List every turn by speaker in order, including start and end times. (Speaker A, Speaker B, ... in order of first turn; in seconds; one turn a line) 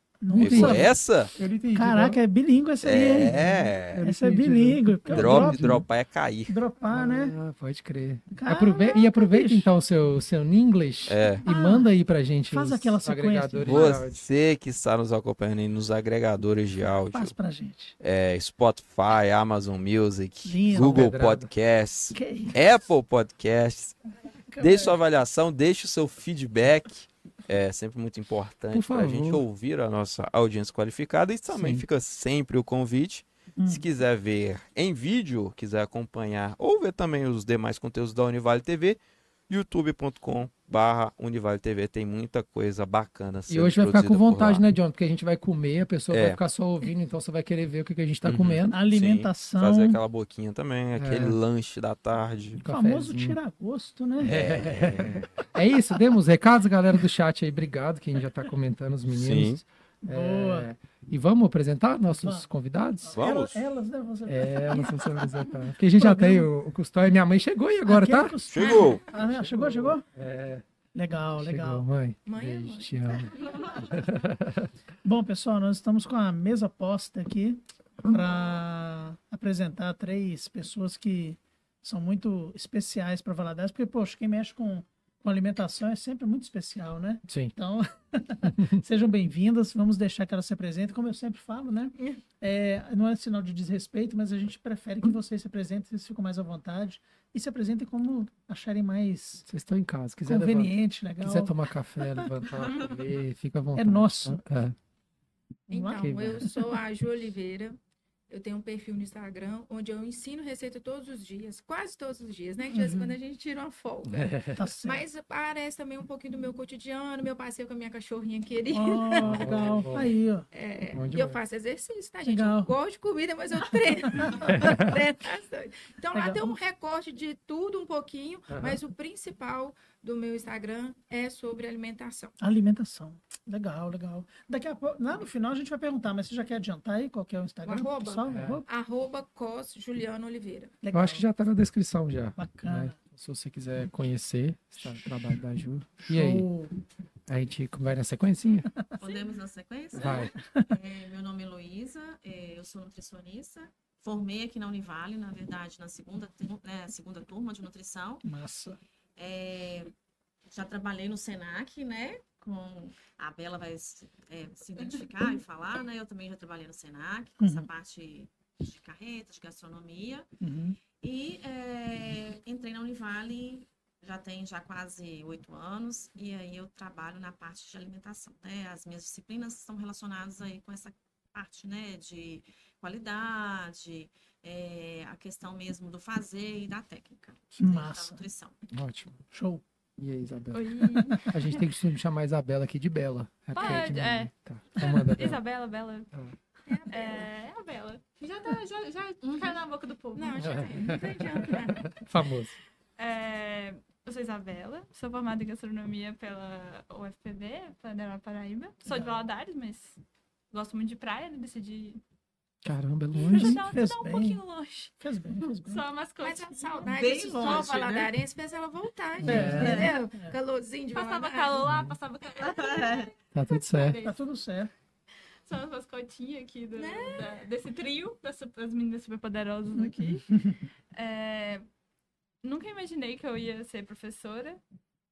Speaker A: 0.2-1.0
Speaker B: 0.3-1.4
Speaker C: 0.3-2.2
Speaker A: 1.7-5.8
Speaker B: 2.8-4.0
Speaker C: 3.1-5.8
Speaker B: 5.1-6.6
Speaker A: 6.5-7.3
Speaker C: 6.9-14.3
Speaker A: 8.3-9.7
Speaker B: 11.1-11.4
Speaker A: 11.4-11.9
Speaker A: 12.5-14.0
Speaker B: 13.6-17.4
Speaker A: 17.1-18.0
Speaker B: 18.0-23.9
Speaker A: 20.4-21.2
Speaker C: 20.7-21.5
Speaker A: 22.1-22.6
Speaker A: 24.5-25.0
Speaker B: 24.6-44.6
Speaker C: 28.7-29.4
Speaker C: 31.5-31.9
Speaker A: 33.6-33.9
Speaker C: 43.5-48.8
Speaker B: 46.1-46.4
Speaker B: 48.2-52.6
Speaker A: 48.7-50.0
Speaker C: 51.0-51.4
Speaker C: 52.6-53.4
Speaker A: 52.6-54.4
Speaker B: 54.2-55.3
Speaker C: 54.2-63.2
Speaker B: 59.1-59.6
Speaker A: 60.0-60.7
Speaker A: 62.1-62.5
Speaker A: 63.0-66.5
Speaker B: 63.1-63.6
Speaker C: 64.3-70.6
Speaker A: 67.9-70.0
Speaker B: 68.5-69.1
Speaker A: 71.0-71.9
Speaker C: 71.3-74.7
Speaker D: 72.3-73.8
Speaker A: 75.0-99.5
Speaker C: 87.3-87.5
Speaker C: 88.5-88.8
Speaker C: 99.5-104.8
Speaker A: 100.3-102.3
Speaker A: 103.8-104.4
Speaker D: 105.7-107.8
Speaker A: 105.7-106.1
Speaker C: 105.9-106.5
Speaker D: 108.3-114.3
Speaker A: 112.6-113.2
Speaker C: 114.1-114.6
Speaker A: 114.6-115.0
Speaker D: 114.8-119.8
Speaker A: 118.7-120.5
Speaker C: 119.2-120.2
Speaker D: 120.5-132.3
Speaker C: 120.9-121.4
Speaker A: 122.3-122.7
Speaker A: 124.2-124.7
Speaker C: 124.5-125.0
Speaker A: 126.1-126.5
Speaker C: 128.5-128.8
Speaker A: 132.4-138.7
Speaker D: 137.6-140.7
Speaker C: 138.3-138.6
Speaker A: 140.8-141.2
Speaker C: 140.9-146.5
Speaker A: 142.4-142.9
Speaker A: 146.0-146.7
Speaker C: 147.3-148.7
Speaker E: 149.0-158.2
Speaker F: 149.0-149.3
Speaker C: 150.0-150.3
Speaker A: 150.5-150.7
Speaker A: 158.2-158.8
Speaker E: 159.2-159.9
Speaker E: 160.5-170.3
Speaker A: 167.4-167.7
Speaker A: 170.4-170.8
Speaker E: 171.0-188.6
Speaker A: 187.6-188.2
Speaker C: 188.7-189.2
Speaker A: 189.3-189.6
Speaker C: 190.0-195.4
Speaker F: 190.5-191.7
Speaker A: 190.9-191.3
Speaker F: 193.5-196.1
Speaker D: 196.7-197.3
Speaker F: 196.9-200.7
Speaker E: 199.2-199.6
Speaker D: 200.2-201.9
Speaker C: 200.4-202.5
Speaker F: 203.0-210.0
Speaker A: 208.9-209.2
Speaker F: 210.5-212.0
Speaker C: 212.6-213.6
Speaker F: 213.2-214.9
Speaker A: 213.3-214.4
Speaker A: 215.0-215.8
Speaker F: 215.6-216.9
Speaker D: 216.2-221.7
Speaker E: 216.9-218.1
Speaker C: 219.2-219.9
Speaker A: 219.2-220.3
Speaker E: 219.6-219.9
Speaker F: 220.9-224.2
Speaker C: 221.7-221.9
Speaker E: 222.4-223.1
Speaker C: 223.3-224.0
Speaker A: 224.0-224.7
Speaker F: 225.5-230.3
Speaker D: 226.8-227.4
Speaker A: 229.8-230.2
Speaker F: 230.9-231.7
Speaker F: 232.4-234.6